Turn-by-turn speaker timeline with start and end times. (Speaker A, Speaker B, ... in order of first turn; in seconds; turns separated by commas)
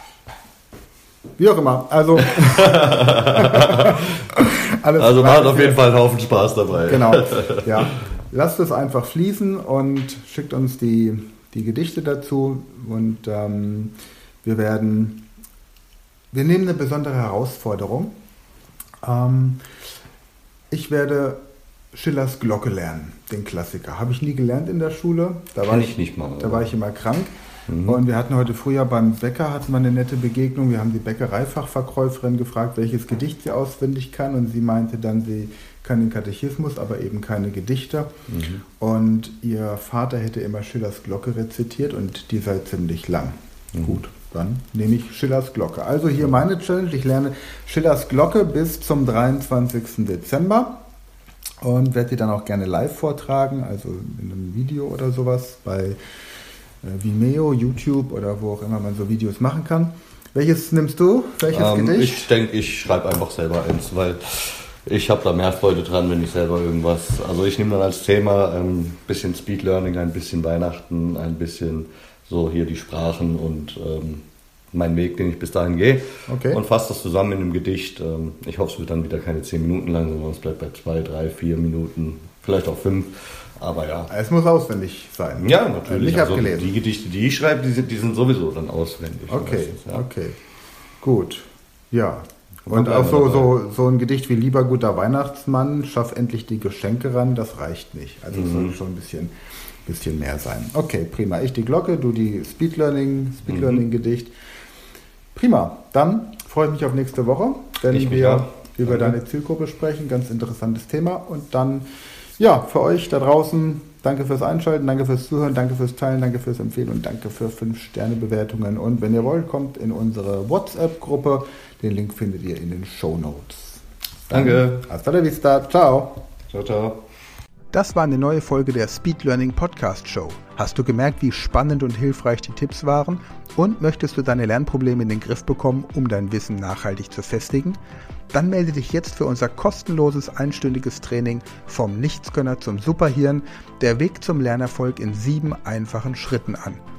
Speaker A: 1.4-5.8, Speaker B: 2.4-4.0, Speaker B: 5.0-7.9, Speaker A: 6.8-15.2, Speaker A: 16.3-18.1, Speaker A: 19.0-19.6, Speaker A: 20.7-21.4, Speaker A: 21.9-27.3, Speaker B: 25.7-26.7, Speaker B: 27.7-28.0, Speaker A: 27.8-38.1, Speaker B: 38.3-38.6, Speaker A: 38.8-50.7, Speaker B: 43.8-44.0, Speaker A: 51.6-56.0, Speaker A: 56.8-62.3, Speaker B: 61.5-84.1, Speaker A: 76.3-76.6, Speaker A: 84.1-86.7, Speaker B: 85.3-90.0, Speaker A: 89.3-90.4, Speaker A: 91.0-99.3, Speaker B: 92.7-93.5, Speaker B: 98.3-98.7, Speaker A: 99.8-104.3, Speaker B: 103.5-103.8, Speaker A: 105.3-111.8, Speaker B: 107.9-109.2, Speaker A: 112.4-126.2, Speaker B: 124.3-124.8, Speaker B: 126.5-127.0, Speaker A: 127.7-137.8, Speaker A: 138.3-146.8